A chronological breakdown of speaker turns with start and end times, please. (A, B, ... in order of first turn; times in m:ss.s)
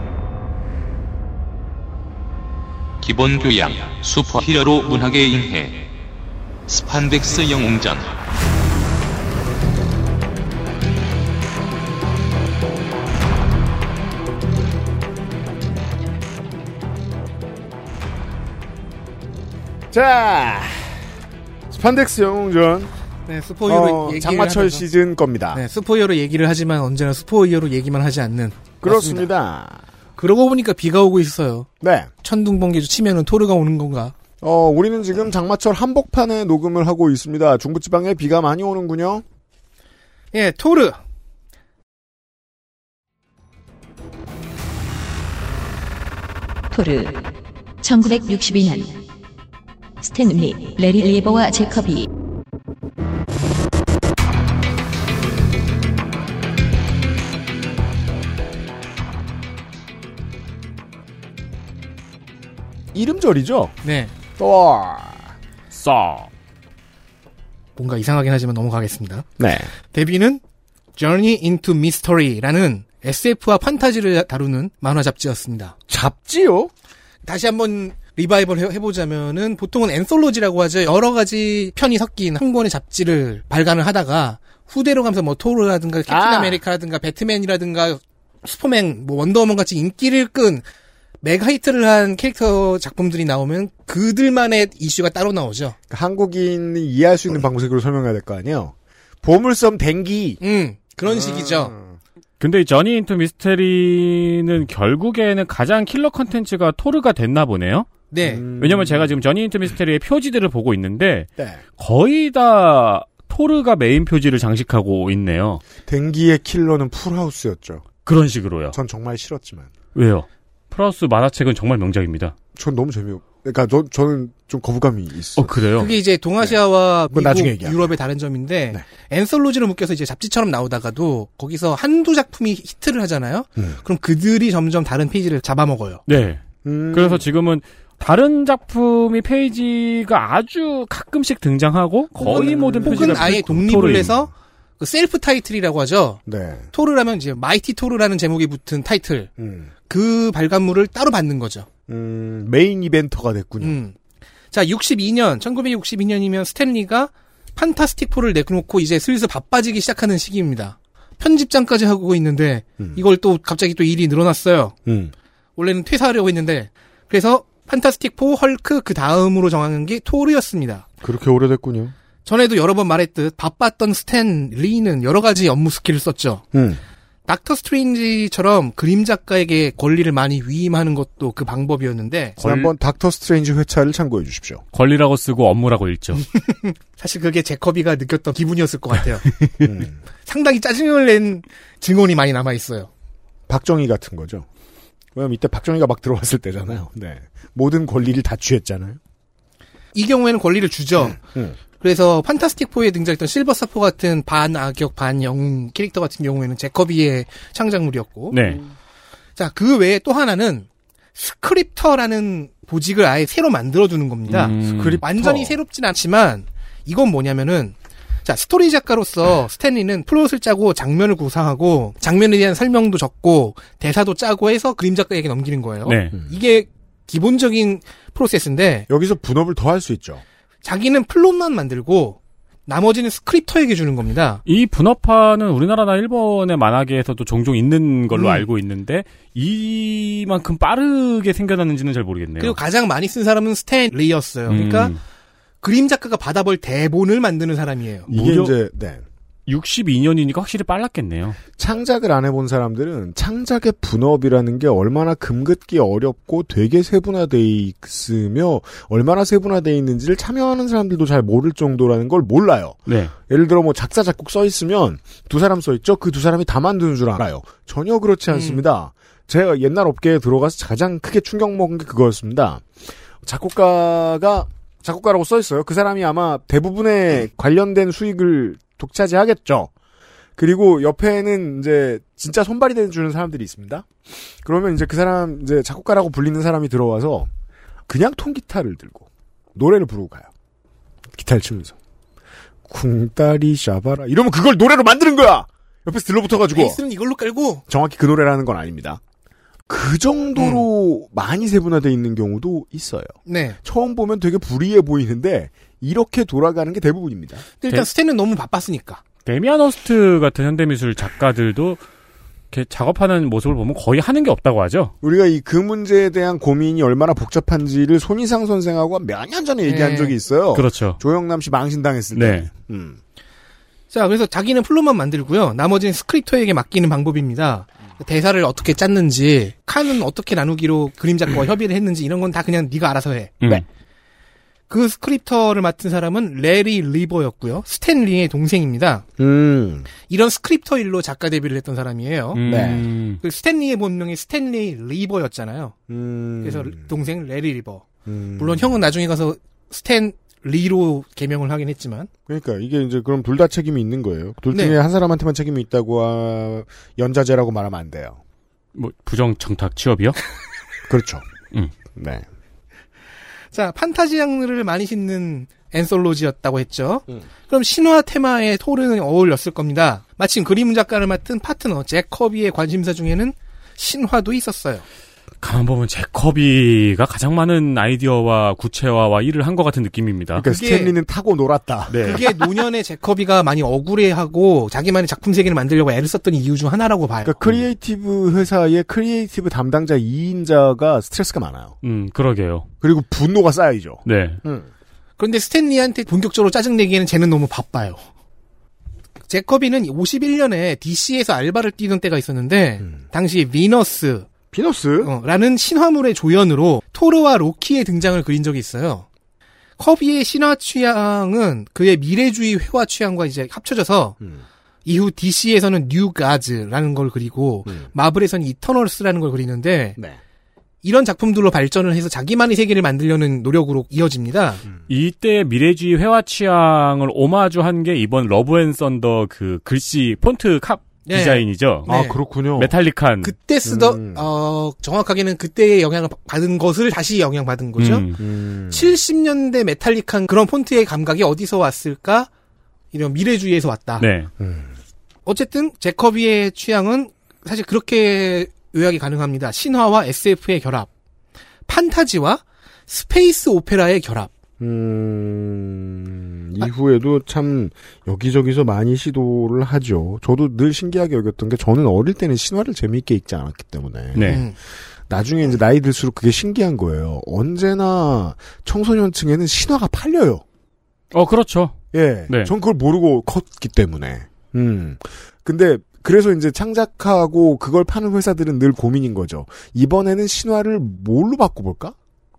0:03.0-0:06.0 A
0:06.7-0:08.2 A
0:19.9-0:21.0 B
0:21.7-0:22.9 B
0:23.3-0:24.9 C
0:23.7-0:25.6 B
0:25.5-0:29.3 C
0:28.8-0:29.8 B
0:30.2-0:31.7 C
0:31.8-0:32.1 B
0:32.2-0:34.1 C
0:34.4-0:39.2 B
0:40.3-0:41.0 C
0:46.7-0:49.0 D
0:50.0-0:52.1 D
1:02.9-1:03.8 B
1:03.8-1:04.1 C
1:04.4-1:05.3 B
1:05.7-1:06.3 E
1:07.8-1:09.3 C
1:09.4-1:09.7 B
1:09.9-1:10.4 C
1:11.0-1:15.8 C
1:15.9-1:16.7 B
1:17.2-1:30.6 C
1:26.1-1:26.6 B
1:31.2-1:35.8 C
1:35.9-1:40.4 B
1:40.4-1:41.7 C
1:41.1-1:42.0 B
1:42.4-1:47.9 E
1:48.1-1:48.4 C
1:48.2-1:49.2 B
1:48.6-1:55.6 E
1:55.8-1:57.9 B
1:58.1-1:58.8 E
1:58.7-1:59.7 B
2:00.0-2:02.3 E
2:02.6-2:05.6 B
2:05.4-2:05.9 E
2:05.8-2:16.0 C
2:06.4-2:07.9 B
2:16.1-2:24.1 E
2:16.6-2:17.3 B
2:22.2-2:26.2 C
2:22.2-2:24.1 B
2:26.3-2:26.7 B
2:26.7-2:29.3 C
2:29.4-2:29.7 B
2:29.9-2:31.7 C
2:31.9-2:33.8 B
2:33.6-2:34.0 C
2:34.5-2:44.8 C
2:44.9-2:45.1 B
2:45.6-2:50.9 C
2:51.0-2:51.9 B
2:52.2-2:56.4 C
2:56.5-2:56.8 B
2:57.3-3:02.4 C
3:02.4-3:02.7 E
3:02.4-3:04.6 B
3:04.7-3:06.2 E
3:06.3-3:09.3 C
3:09.6-3:10.0 B
3:10.2-3:12.9 C
3:13.5-3:14.5 B
3:15.2-3:19.0 B
3:19.9-3:21.2 C
3:21.0-3:21.6 B
3:21.8-3:28.4 C
3:28.3-3:28.6 E
3:29.4-3:48.9 C
3:34.3-3:35.0 E
3:34.6-3:35.6 B
3:45.8-3:46.2 E
3:48.9-3:50.2 B
3:50.6-3:54.4 C
3:54.5-4:02.6 E
4:02.4-4:04.9 C
4:04.5-4:05.0 E
4:05.6-4:08.1 C
4:08.1-4:09.0 B
4:08.1-4:08.5 E
4:09.5-4:11.4 E
4:11.6-4:39.7 B
4:22.9-4:23.1 E
4:28.3-4:28.6 C
4:40.4-4:47.3 B
4:47.9-4:50.3 B
4:51.1-4:51.8 B
4:52.7-4:56.8 B
4:56.5-4:57.6 C
4:57.7-4:59.0 B
4:59.7-5:07.4 B
5:00.4-5:00.7 C
5:03.3-5:03.6 C
5:07.6-5:09.0 C
5:09.2-5:11.8 E
5:12.5-5:14.9 E
5:15.0-5:23.0 B
5:19.6-5:20.2 C
5:20.5-5:21.0 E
5:22.1-5:22.5 E
5:23.9-5:33.4 C
5:34.7-5:39.0 C
5:39.2-5:39.9 B
5:40.1-5:42.4 C
5:42.4-5:43.2 E
5:42.4-5:42.9 B
5:43.2-5:45.8 C
5:45.9-5:46.9 B
5:46.4-5:47.9 C
5:48.1-5:48.8 B
5:48.4-5:52.1 C
5:52.3-5:58.2 B
5:54.5-5:54.8 C
5:58.8-6:00.2 E
6:00.9-6:01.2 B
6:02.0-6:02.2 B
6:03.5-6:14.8 C
6:15.4-6:20.4 E
6:20.4-6:22.4 B
6:20.5-6:21.0 C
6:21.9-6:22.2 E
6:22.0-6:27.4 C
6:27.2-6:31.8 B
6:31.8-6:32.7 E
6:32.8-6:34.7 B
6:34.0-6:34.4 E
6:35.2-6:38.0 C
6:39.3-6:44.3 C
6:44.5-6:45.1 B
6:45.0-6:49.1 C
6:49.8-6:54.2 C
6:54.8-7:00.0 C
7:00.8-7:04.6 C
7:04.9-7:11.9 E
7:11.1-7:12.2 C
7:11.9-7:12.7 B
7:12.6-7:13.4 E
7:13.2-7:18.1 C
7:13.6-7:14.3 B
7:17.8-7:18.2 E
7:18.2-7:18.9 B
7:18.7-7:22.3 C
7:22.9-7:24.1 C
7:24.0-7:24.3 E
7:24.4-7:24.7 B
7:25.3-7:30.9 C
7:31.7-7:34.3 C
7:34.6-7:44.5 B
7:44.2-7:44.4 E
7:44.2-7:44.6 C
7:45.1-7:50.4 B
7:51.1-7:51.8 E
7:51.9-8:02.0 B